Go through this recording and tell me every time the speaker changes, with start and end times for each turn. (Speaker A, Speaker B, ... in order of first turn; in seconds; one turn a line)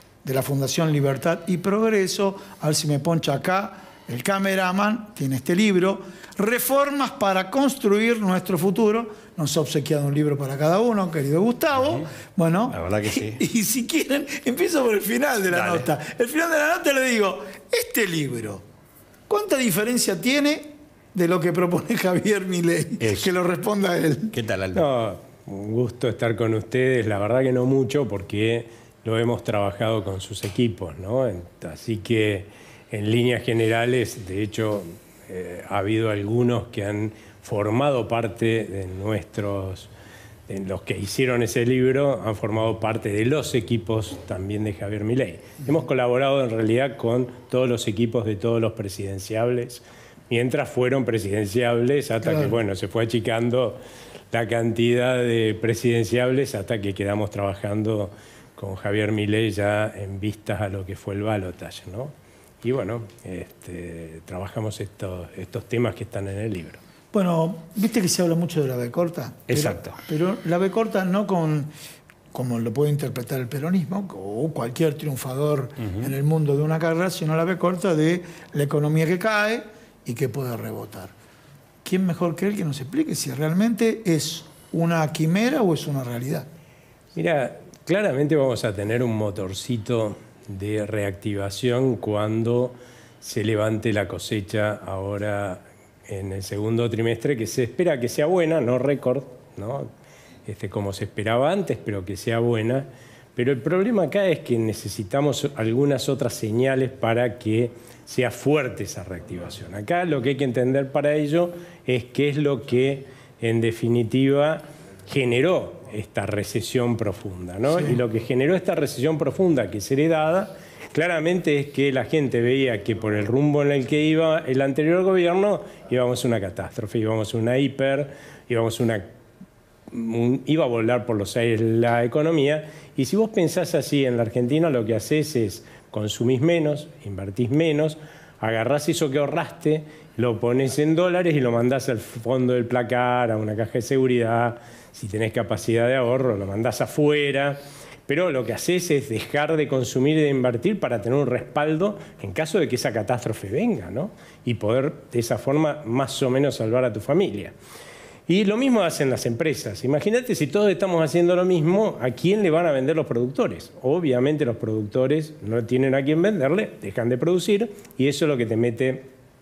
Speaker A: 0.2-18.6
Speaker B: 12.7-13.4
Speaker B: 15.5-15.9
Speaker A: 19.3-24.4
Speaker B: 23.0-23.3
Speaker B: 24.3-24.9
Speaker C: 24.7-39.9
Speaker C: 40.5-53.8
Speaker A: 52.2-52.5
Speaker C: 54.3-66.8
Speaker A: 67.1-71.7
Speaker B: 69.5-70.0
Speaker A: 72.3-81.1
Speaker A: 81.8-86.5
Speaker C: 87.2-99.9
Speaker C: 100.5-129.1
Speaker C: 129.9-157.5
Speaker C: 158.3-169.1